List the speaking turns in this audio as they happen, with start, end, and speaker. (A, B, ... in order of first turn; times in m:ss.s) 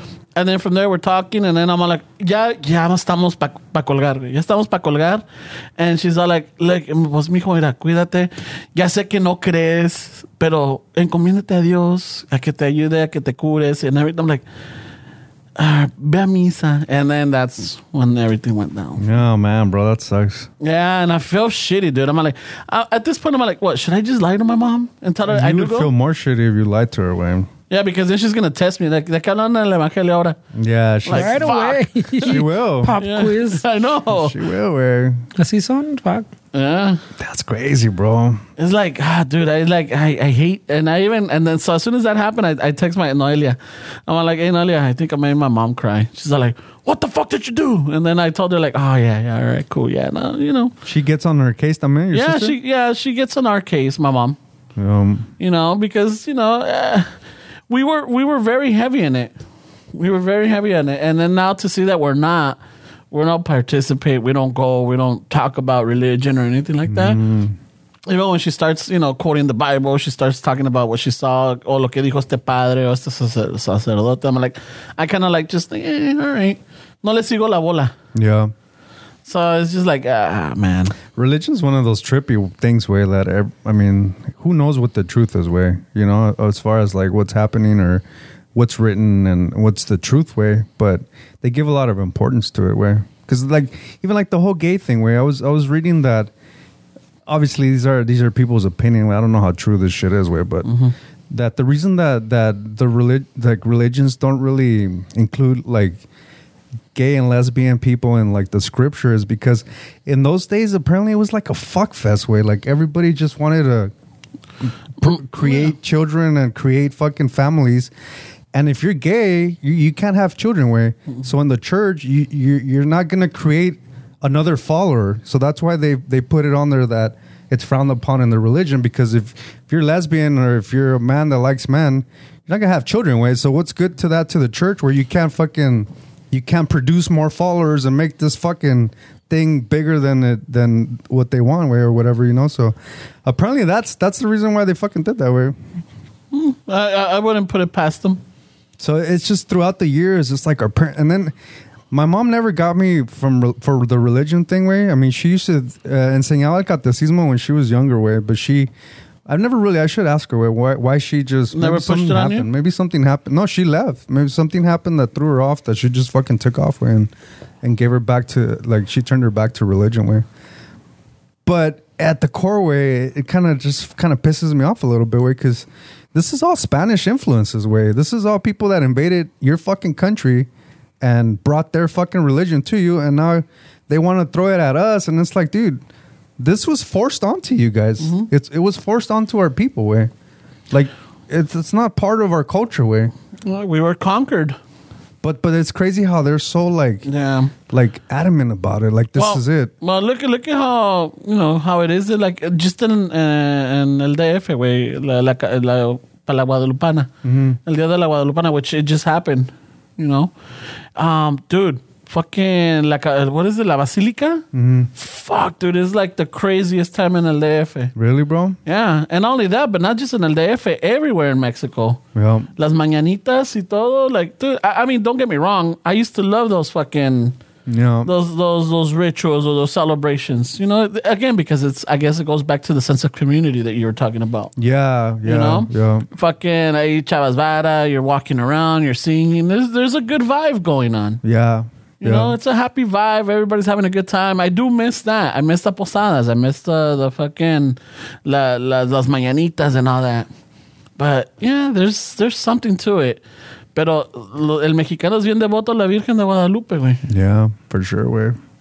0:00.4-0:05.2 A
0:05.8-0:14.4 A
0:15.6-0:19.1 A
0:19.0-0:20.5 B
0:20.6-0:25.9 A
0:25.3-0:27.5 B
0:27.7-0:30.4 A
0:30.5-0:31.5 B
0:31.0-0:32.4 A
0:31.1-0:33.6 C
0:32.2-0:33.0 B
0:33.0-0:34.4 A
0:34.1-0:35.2 B
0:35.4-0:36.3 C
0:36.5-0:37.0 A
0:37.2-0:38.4 B
0:38.6-0:50.7 A
0:50.8-0:52.6 B
0:52.1-0:54.4 A
0:54.8-0:55.3 B
0:55.4-0:57.1 A
0:57.7-0:59.3 A
0:59.9-1:02.6 A
1:03.1-1:07.2 A
1:06.8-1:07.6 B
1:08.1-1:17.9 A
1:18.1-1:18.5 B
1:19.2-1:21.0 A
1:21.1-1:28.0 B
1:28.5-1:36.3 B
1:37.2-1:40.7 B
1:40.6-1:40.9 A
1:41.3-1:46.0 B
1:46.9-1:53.9 B
1:54.6-1:57.9 B
1:58.5-2:25.6 B
2:26.3-2:28.2 A
2:28.8-2:31.3 B
2:31.9-2:38.7 B
2:39.2-2:47.1 B
2:41.5-2:42.5 A
2:47.6-2:50.2 B
2:51.4-3:00.5 B
3:01.0-3:05.8 B
3:06.4-3:10.1 B
3:08.0-3:08.3 A
3:10.7-3:13.1 B
3:13.4-3:14.6 A
3:15.2-3:17.1 B
3:17.0-3:17.5 A
3:17.7-3:19.7 B
3:19.2-3:27.1 A
3:27.2-3:27.6 B
3:27.6-3:30.3 A
3:30.9-3:37.9 A
3:34.5-3:34.9 B
3:37.9-3:38.6 B
3:38.6-3:42.0 A
3:42.1-3:42.5 B
3:42.6-3:47.4 A
3:47.7-3:48.1 B
3:48.0-3:54.5 A
3:54.6-3:56.1 B
3:55.2-4:01.2 A
4:01.2-4:02.4 B
4:02.0-4:10.3 A
4:11.0-4:13.2 A
4:13.7-4:17.0 A
4:17.0-4:18.4 B